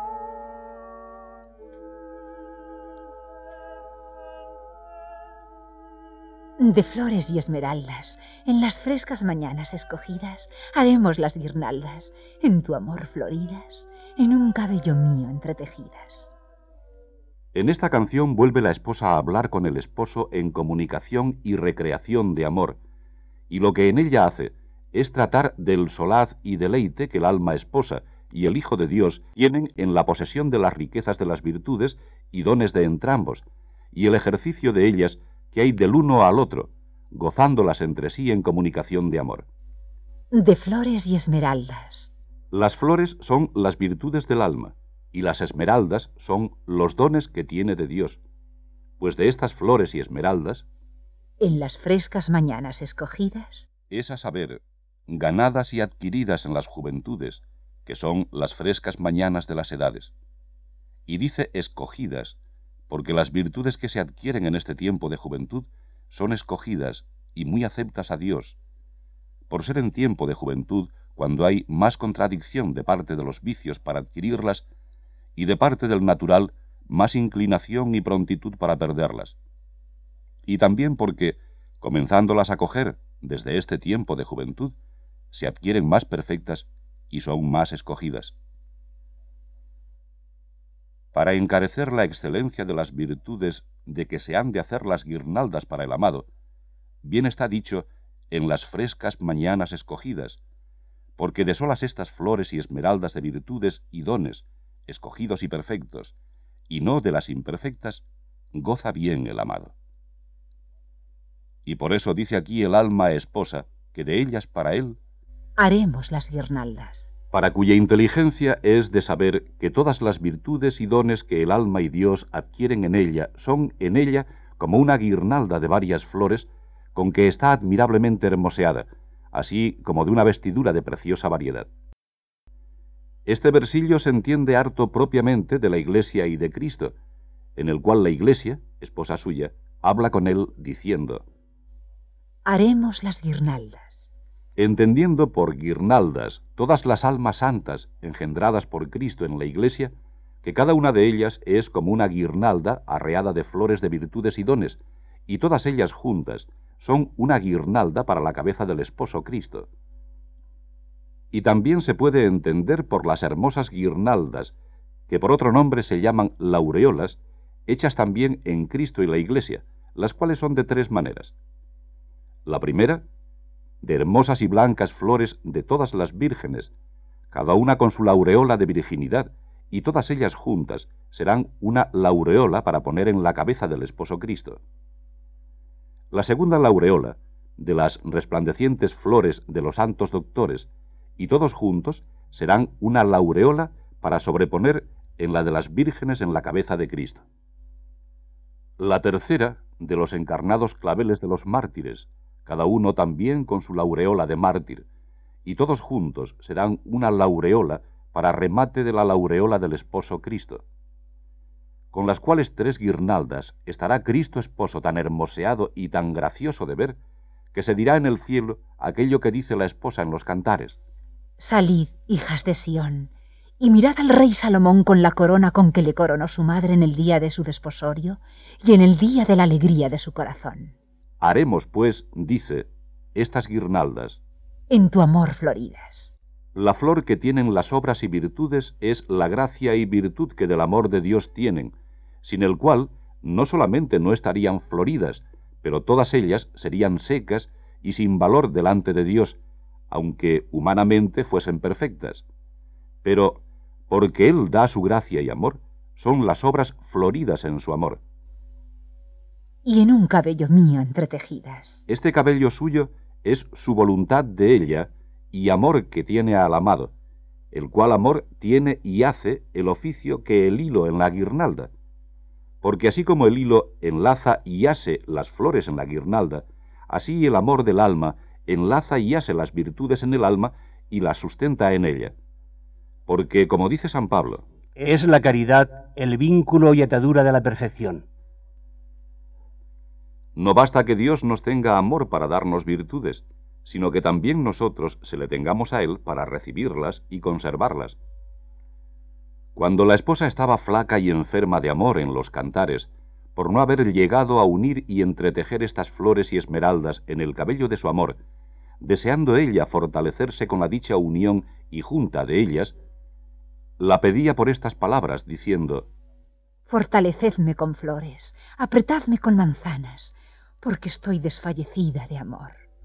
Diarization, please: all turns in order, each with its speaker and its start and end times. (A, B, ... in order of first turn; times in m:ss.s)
0:06.6-0:16.3 A
0:17.5-0:22.8 B
0:23.5-0:39.5 B
0:40.3-0:42.1 A
0:42.5-0:48.2 B
0:49.0-0:50.7 B
0:51.4-0:53.7 A
0:53.9-1:00.1 B
1:01.1-1:08.6 B
1:09.5-1:14.6 B
1:15.4-1:19.4 B
1:20.4-1:24.7 B
1:25.3-1:28.4 B
1:31.1-1:36.3 B
1:37.0-1:40.4 B
1:41.2-1:46.2 B
1:46.7-1:49.7 B
1:51.6-1:55.0 B
1:55.6-1:57.1 A
1:57.3-2:11.7 B
2:13.2-2:16.9 B
2:17.6-2:21.2 B
2:22.4-2:24.1 A
2:24.6-2:29.9 B
2:30.4-2:39.7 B
2:41.3-2:44.5 B
2:45.1-2:51.3 B
2:52.4-2:53.0 B
2:53.8-2:56.7 B
2:57.3-3:04.6 B
3:06.1-3:17.2 B
3:18.8-3:24.8 B
3:25.4-3:30.6 B
3:31.9-3:37.0 B
3:37.5-3:40.8 B
3:41.4-3:50.7 A
3:51.2-3:54.2 B
3:54.7-3:56.2 A
3:56.5-4:09.4 B
4:09.9-4:12.2 B
4:13.0-4:18.0 B
4:19.6-4:21.8 A
4:21.9-4:26.9 B
4:27.5-4:31.7 B
4:32.6-4:42.1 B
4:43.1-4:44.4 B
4:44.8-4:48.0 C
4:50.4-4:58.0 B
4:59.5-5:08.2 B
5:08.8-5:12.8 B
5:13.8-5:15.9 B
5:16.7-5:22.6 A